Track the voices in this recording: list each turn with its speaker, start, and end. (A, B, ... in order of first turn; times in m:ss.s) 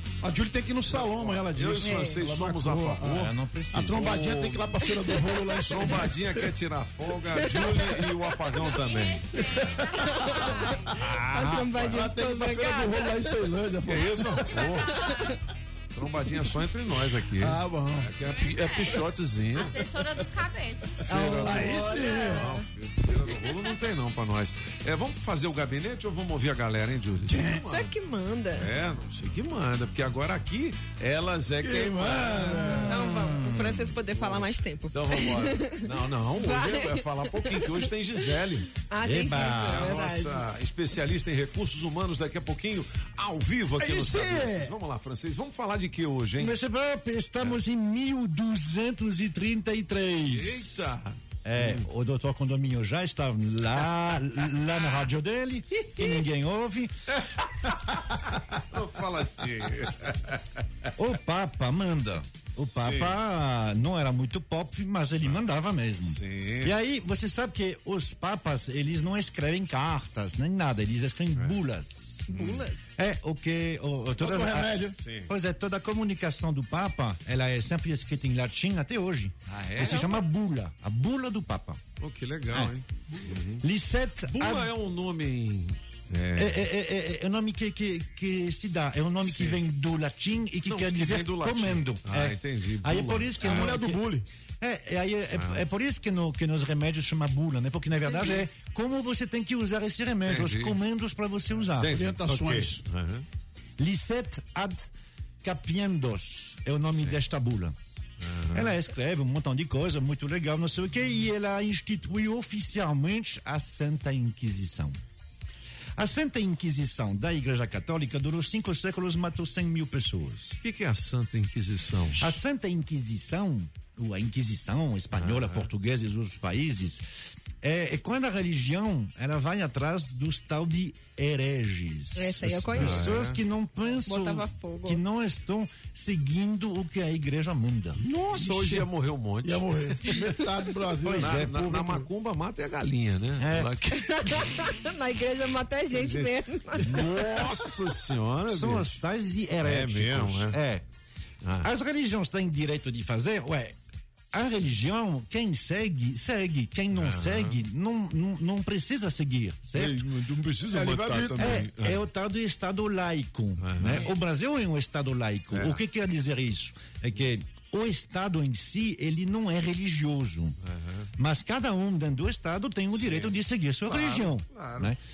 0:00.2-0:06.5 A
0:00.9-0:03.3 B
0:01.8-0:02.2 C
0:03.1-0:04.0 D
0:03.8-0:04.9 B
0:05.6-0:09.3 B
0:07.4-0:07.8 C
0:08.5-0:10.8 E
0:09.4-0:10.8 A
0:11.0-0:11.4 B
0:11.3-0:14.6 A
0:11.3-0:13.2 C
0:13.8-0:14.9 B
0:14.5-0:15.2 E
0:15.0-0:15.3 C
0:15.9-0:19.9 B
0:17.4-0:18.1 A
0:18.2-0:21.0 E
0:21.0-0:27.9 B
0:21.1-0:22.5 A
0:21.9-0:22.3 E
0:23.5-0:23.8 E
0:27.3-0:27.6 A
0:27.6-0:28.7 C
0:28.5-0:32.7 B
0:31.6-0:32.9 A
0:32.8-0:35.8 C
0:32.9-0:33.7 D
0:33.6-0:38.7 B
0:36.4-0:37.7 C
0:38.9-0:40.4 C
0:39.0-0:39.9 D
0:39.5-0:46.6 B
0:43.8-0:44.7 A
0:46.4-0:50.9 D
0:50.3-0:51.8 B
0:51.4-0:56.9 D
0:58.3-1:00.4 B
1:01.0-1:21.8 D
1:02.7-1:03.2 B
1:06.0-1:06.7 B
1:12.3-1:12.6 B
1:12.3-1:12.9 C
1:14.2-1:15.0 A
1:15.0-1:15.3 B
1:19.5-1:20.2 B
1:19.8-1:20.2 C
1:22.0-1:23.6 B
1:23.6-1:24.7 D
1:24.3-1:26.6 B
1:26.4-1:34.0 D
1:29.2-1:29.6 B
1:30.6-1:33.8 B
1:33.4-1:34.2 A
1:34.6-1:42.0 D
1:35.3-1:35.6 B
1:38.1-1:38.4 C
1:40.2-1:40.8 B
1:41.8-1:43.2 B
1:41.9-1:42.8 A
1:43.8-1:44.9 D
1:45.4-1:47.7 D
1:48.2-1:48.7 B
1:48.5-1:54.9 D
1:56.0-2:00.6 D
2:00.6-2:02.3 B
2:02.2-2:07.0 D
2:05.1-2:05.7 B
2:07.6-2:18.0 D
2:12.2-2:13.2 C
2:12.7-2:13.4 B
2:14.1-2:15.0 C
2:18.1-2:19.7 B
2:18.1-2:18.8 A
2:19.4-2:22.0 A
2:21.0-2:24.0 B
2:21.1-2:21.6 D
2:23.4-2:23.7 D
2:23.9-2:27.2 C
2:25.9-2:28.9 B
2:28.5-2:30.8 D
2:29.6-2:30.5 B
2:31.4-2:31.7 B
2:31.6-2:33.7 D
2:34.3-2:40.0 D
2:36.9-2:37.6 B
2:39.7-2:42.0 B
2:40.7-2:41.6 A
2:41.3-2:50.5 D
2:43.6-2:44.1 B
2:45.5-2:45.8 B
2:50.6-2:51.1 B
2:51.2-2:55.0 D
2:52.9-2:53.3 B
2:53.8-2:54.9 B